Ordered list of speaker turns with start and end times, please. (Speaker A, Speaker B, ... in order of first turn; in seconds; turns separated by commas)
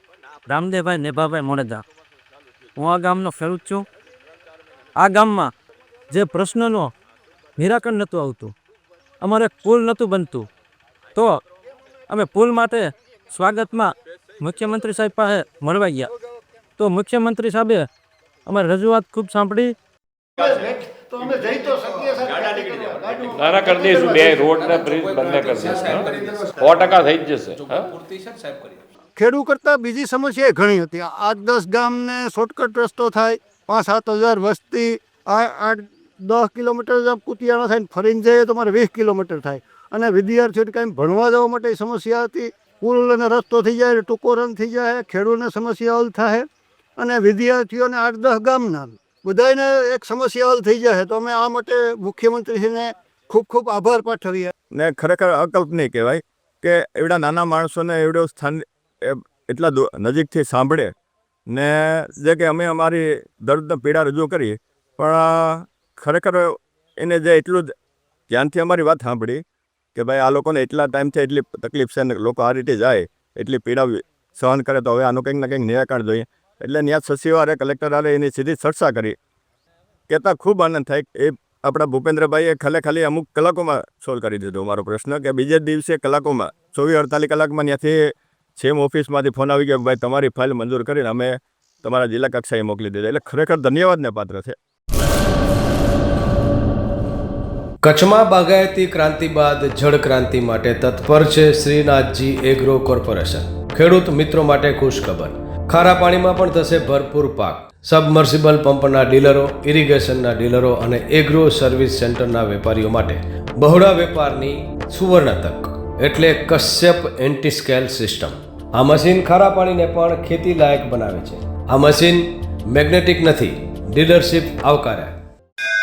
Speaker A: 0.5-1.8, Speaker A: 2.8-3.9, Speaker A: 5.0-5.5, Speaker A: 6.1-6.9, Speaker A: 7.6-8.5, Speaker A: 9.2-10.5, Speaker A: 12.1-16.1, Speaker A: 16.8-17.9, Speaker A: 18.5-19.7, Speaker B: 20.4-24.9, Speaker C: 23.3-28.0, Speaker B: 26.0-26.6, Speaker B: 29.2-46.5, Speaker B: 47.0-54.5, Speaker D: 54.7-60.9, Speaker D: 61.5-67.7, Speaker D: 68.3-69.4, Speaker D: 70.0-79.2, Speaker D: 80.1-94.6, Speaker E: 97.8-125.1